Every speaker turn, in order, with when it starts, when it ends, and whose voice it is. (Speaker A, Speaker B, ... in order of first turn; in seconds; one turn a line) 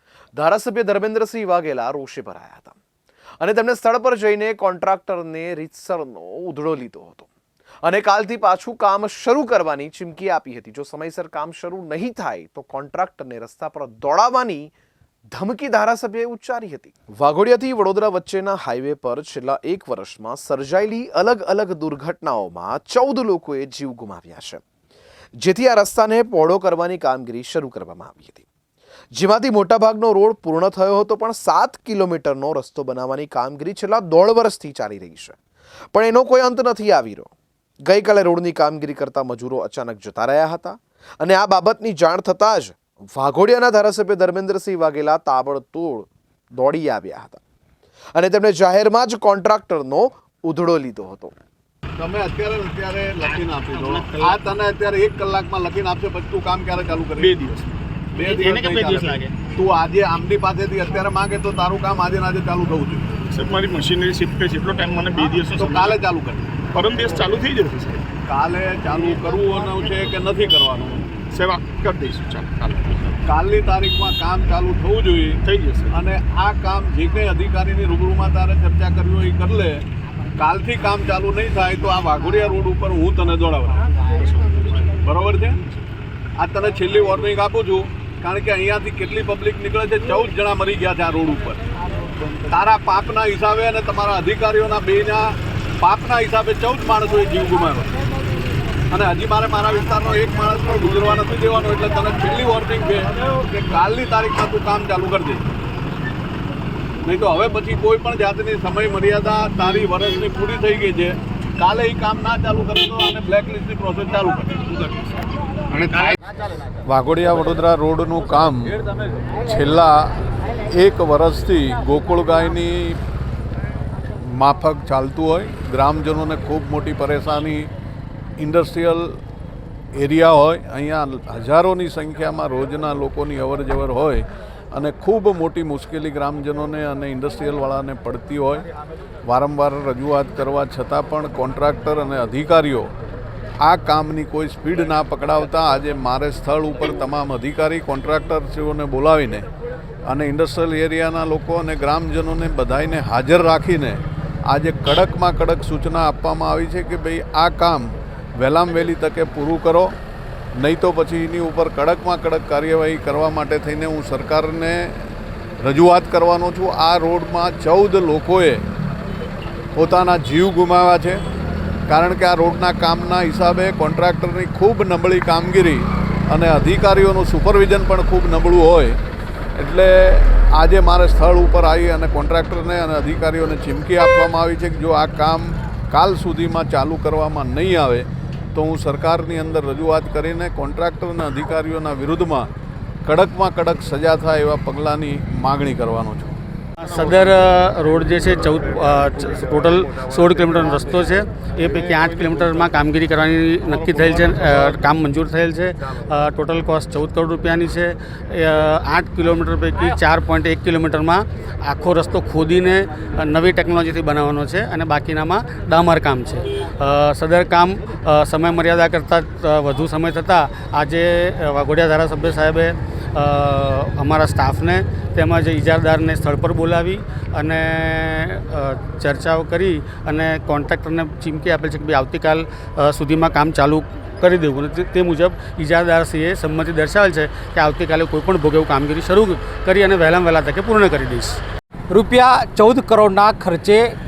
Speaker A: 0.3-2.8
Speaker A: 3.4-7.3
Speaker A: 7.8-14.7
Speaker A: 15.3-24.6
Speaker A: 25.4-28.5
Speaker A: 29.1-35.4
Speaker A: 35.9-37.3
Speaker A: 37.9-47.4
Speaker A: 48.1-51.3
Speaker B: 52.0-57.6
Speaker B: 58.1-63.1
Speaker C: 58.4-59.3
Speaker D: 63.4-65.7
Speaker B: 65.4-66.5
Speaker D: 66.7-68.0
Speaker B: 68.2-71.0
Speaker D: 71.3-73.1
Speaker B: 73.2-79.8
Speaker D: 75.5-75.9
Speaker B: 80.4-83.8
Speaker B: 84.9-85.6
Speaker B: 86.4-91.6
Speaker B: 92.5-97.9
Speaker B: 98.9-105.4
Speaker B: 107.0-114.6
Speaker C: 115.8-116.1
Speaker E: 116.9-118.7
Speaker E: 119.5-120.1
Speaker E: 120.7-122.9
Speaker E: 124.4-127.7
Speaker E: 128.4-129.1
Speaker E: 129.9-134.2
Speaker E: 134.7-138.6
Speaker E: 139.2-142.9
Speaker E: 143.7-149.4
Speaker E: 150.1-154.0
Speaker E: 154.5-159.9
Speaker E: 160.6-164.9
Speaker E: 165.6-168.6
Speaker E: 169.8-171.2
Speaker E: 171.9-179.0
Speaker E: 179.6-192.5
Speaker E: 193.0-196.3
Speaker C: 196.8-241.4
Speaker F: 241.9-243.8